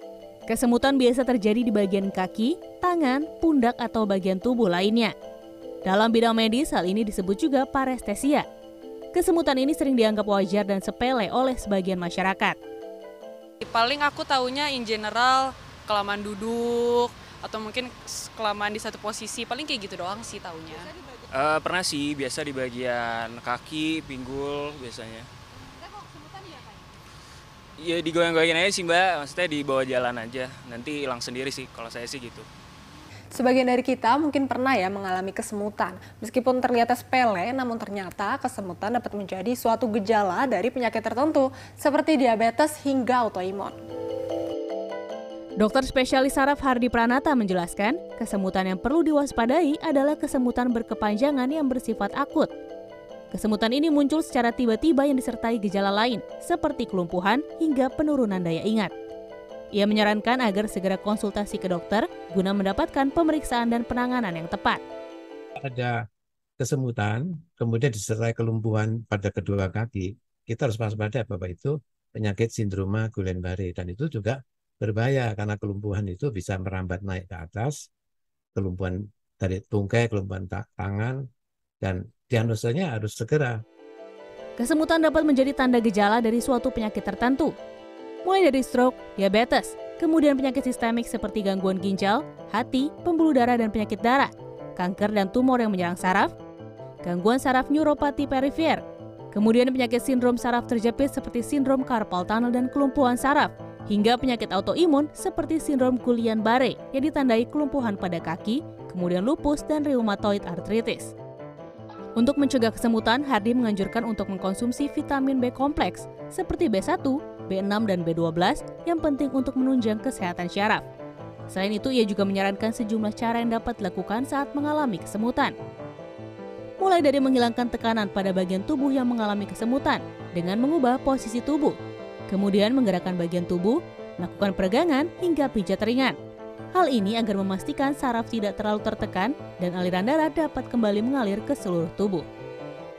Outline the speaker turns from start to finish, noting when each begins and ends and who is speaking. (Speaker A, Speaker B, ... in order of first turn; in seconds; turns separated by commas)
Speaker A: 0.5-5.1, Speaker A: 5.8-8.4, Speaker A: 9.1-12.6, Speaker B: 13.6-20.9, Speaker C: 21.3-25.3, Speaker C: 27.8-32.5, Speaker D: 33.3-43.8, Speaker A: 45.6-52.5, Speaker A: 53.3-58.9, Speaker A: 59.7-64.8, Speaker E: 65.6-66.0, Speaker E: 66.6-77.9, Speaker E: 78.5-81.2, Speaker E: 81.8-83.6, Speaker A: 84.6-87.5, Speaker A: 88.2-96.3, Speaker A: 97.0-111.1, Speaker A: 112.2-120.8, Speaker A: 121.5-125.5, Speaker A: 126.8-131.8, Speaker A: 132.3-136.2, Speaker A: 136.7-142.3